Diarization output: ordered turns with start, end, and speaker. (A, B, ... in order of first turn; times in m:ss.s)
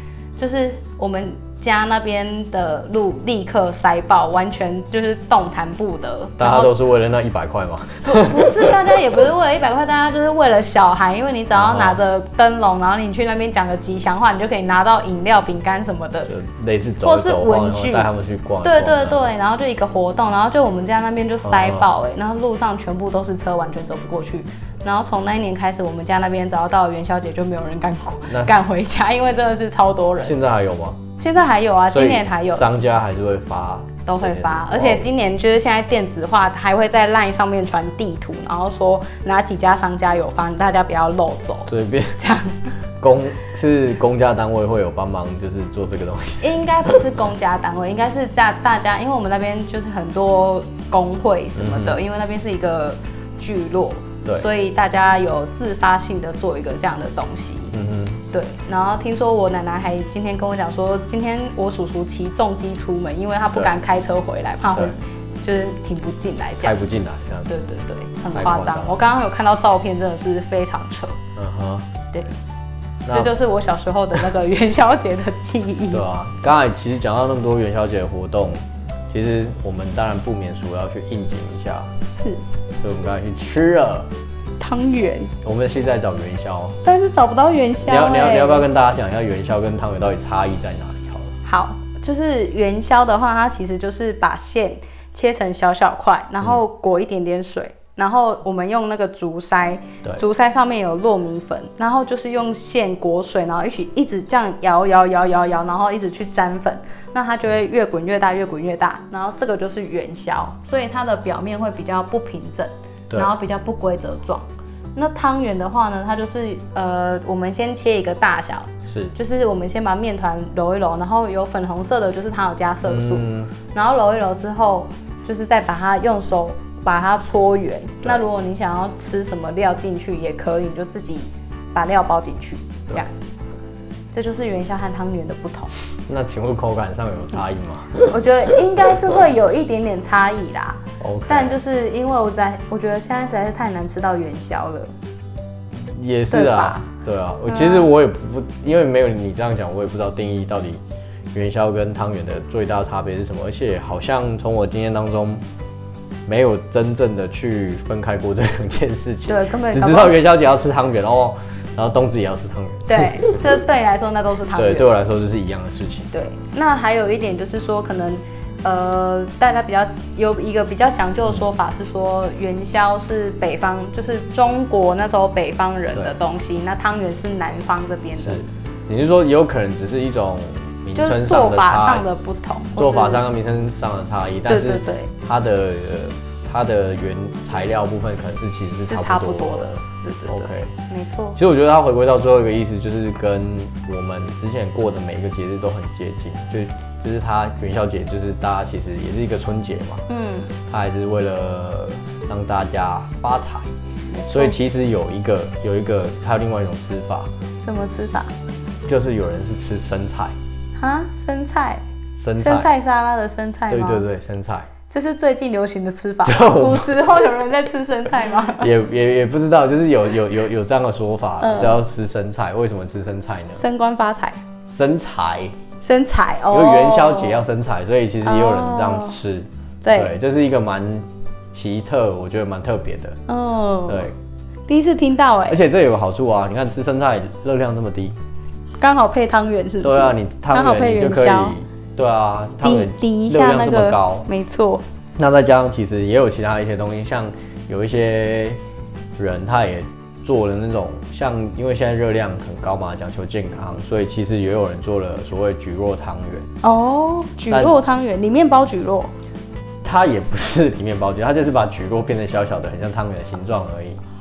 0:00.4-0:06.7 A
0:06.4-0:08.8 B
0:08.0-0:16.3 A
0:11.5-0:12.0 B
0:16.3-0:19.3 B
0:17.0-0:18.1 A
0:18.6-0:30.4 A
0:21.4-0:21.9 B
0:28.3-0:28.5 B
0:30.2-0:31.0 B
0:31.2-0:32.7 A
0:31.9-0:35.1 B
0:34.0-0:42.7 A
0:41.7-0:42.2 B
0:43.0-0:47.1 B
0:46.4-0:57.7 A
0:51.6-0:52.0 B
0:57.7-0:58.2 B
0:58.3-1:06.8 A
1:06.6-1:07.5 B
1:07.4-1:11.2 A
1:08.3-1:09.0 B
1:11.4-1:11.9 B
1:13.0-1:13.3 B
1:13.1-1:16.0 A
1:15.9-1:21.9 B
1:22.1-1:22.4 A
1:22.8-1:24.1 B
1:24.6-1:25.3 A
1:25.4-1:26.8 B
1:26.8-1:28.6 A
1:27.8-1:31.4 B
1:31.4-2:13.1 A
1:58.9-1:59.1 B
2:02.8-2:03.5 B
2:14.1-2:15.7 A
2:16.1-2:18.2 B
2:18.1-2:24.9 A
2:21.0-2:21.5 B
2:25.7-2:30.8 B
2:26.3-2:26.8 A
2:27.5-2:27.9 A
2:31.3-2:35.4 B
2:36.2-2:43.4 B
2:39.3-2:40.2 A
2:42.8-2:45.0 A
2:44.5-2:46.1 B
2:46.1-2:58.4 A
2:58.2-3:02.0 B
3:00.9-3:03.2 A
3:02.8-3:10.7 B
3:04.5-3:05.1 A
3:08.9-3:11.4 A
3:11.4-3:20.0 B
3:20.1-3:20.5 A
3:20.7-3:23.7 B
3:24.1-3:24.6 A
3:24.3-3:27.3 B
3:27.6-3:28.3 A
3:28.8-3:30.4 B
3:30.8-3:31.8 A
3:32.2-3:32.7 B
3:32.4-3:34.0 A
3:33.7-3:34.7 B
3:34.9-3:38.7 A
3:36.2-3:36.9 B
3:38.6-3:43.6 B
3:41.4-3:41.8 A
3:43.6-3:44.4 A
3:44.7-3:45.5 B
3:45.8-3:47.4 A
3:46.5-3:53.2 B
3:48.2-3:49.2 A
3:49.8-3:50.1 A
3:53.3-3:54.1 A
3:53.9-3:54.2 B
3:54.7-3:55.6 A
3:55.5-3:58.2 B
3:58.8-4:01.6 A
3:59.8-4:04.3 B
4:02.6-4:04.8 A
4:05.2-4:08.6 B
4:09.2-4:16.5 B
4:16.6-4:19.1 A
4:17.5-4:17.7 B
4:19.8-4:24.0 B